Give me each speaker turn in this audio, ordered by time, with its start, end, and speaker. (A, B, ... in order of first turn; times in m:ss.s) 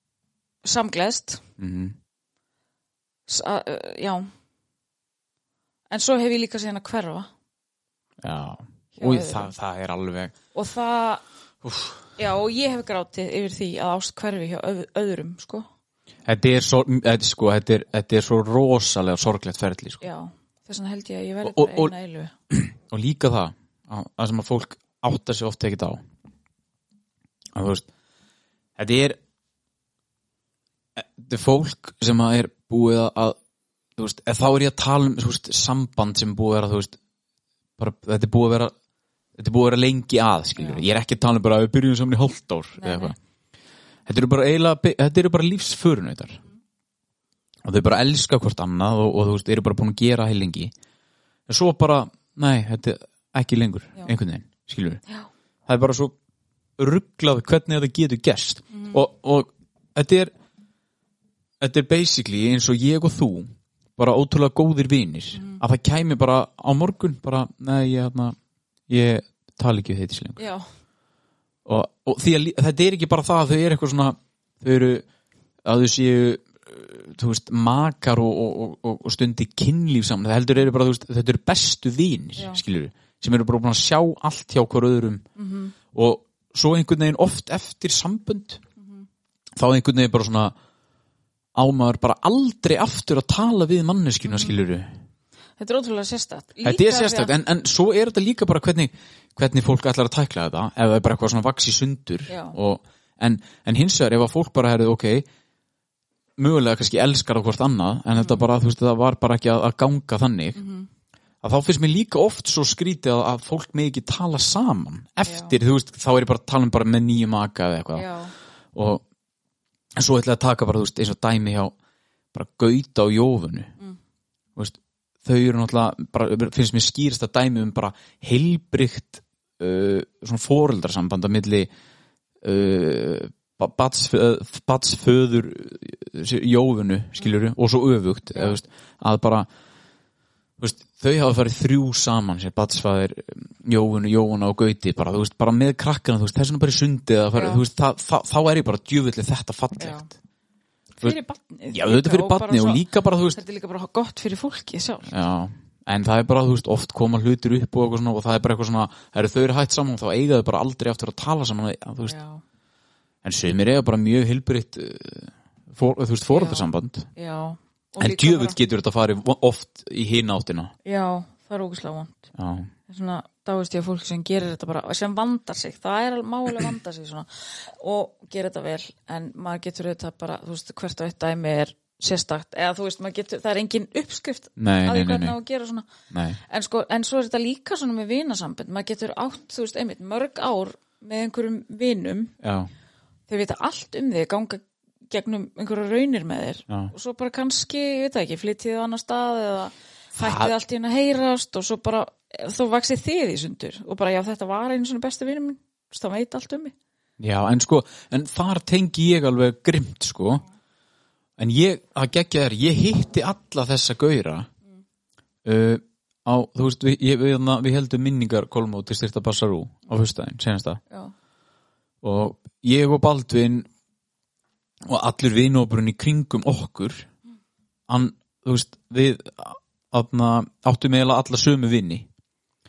0:00.6-0:01.4 A
0:01.6-0:02.0 B
0:03.3-0:04.3 A
0:05.9-0:07.3 A
0:08.2-0:10.3 B
0:09.0-0:09.5 A
0:10.5-0:11.2 A
0:11.6-0:12.0 B
0:12.2-0:15.6 A
0:16.2-0:20.0 B
0:20.0-0:22.3 A
0:21.4-0:21.9 B
0:22.5-0:26.0 B
0:27.5-0:27.8 B
0:28.8-0:29.2 B
0:31.0-0:33.4 B
0:34.0-0:37.0 B
0:37.8-0:38.7 B
0:39.4-0:43.2 B
0:40.6-0:40.8 A
0:42.8-0:43.1 A
0:44.0-0:46.4 B
0:47.6-0:50.7 B
0:51.5-0:55.0 B
0:55.7-0:56.1 B
0:56.8-1:00.3 B
0:58.7-0:59.0 A
1:01.6-1:08.4 B
1:05.3-1:05.6 A
1:08.9-1:10.4 B
1:10.4-1:10.6 A
1:11.6-1:15.0 B
1:15.6-1:25.2 B
1:25.4-1:25.7 A
1:25.9-1:28.6 B
1:28.8-1:29.0 A
1:29.6-1:30.5 B
1:31.6-1:34.9 B
1:34.3-1:34.5 A
1:35.6-1:37.3 A
1:36.6-1:45.2 B
1:42.3-1:42.6 A
1:46.4-1:50.6 B
1:48.2-1:48.4 A
1:50.5-1:50.9 A
1:51.4-1:58.1 B
1:55.2-1:55.5 A
1:57.9-1:58.3 A
1:58.7-1:59.0 B
2:00.0-2:01.7 B
2:02.3-2:03.7 B
2:04.6-2:11.7 B
2:12.4-2:19.5 B
2:18.3-2:18.6 A
2:20.6-2:30.1 B
2:27.3-2:27.6 A
2:29.8-2:30.1 A
2:31.0-2:35.1 A
2:31.7-2:33.4 B
2:35.1-2:42.2 B
2:42.0-2:42.4 A
2:43.2-2:47.1 B
2:46.3-2:48.6 A
2:48.0-2:50.7 B
2:50.8-2:52.3 A
2:52.3-2:52.7 B
2:52.9-3:05.9 A
3:04.6-3:05.4 B
3:06.1-3:06.4 B
3:06.5-3:12.3 A
3:12.4-3:12.7 B
3:13.3-3:26.7 A
3:20.2-3:20.5 B
3:27.2-3:30.4 B
3:31.4-3:34.5 B
3:35.4-3:40.8 B
3:42.0-3:43.7 B
3:44.8-3:47.1 B
3:47.9-3:52.1 B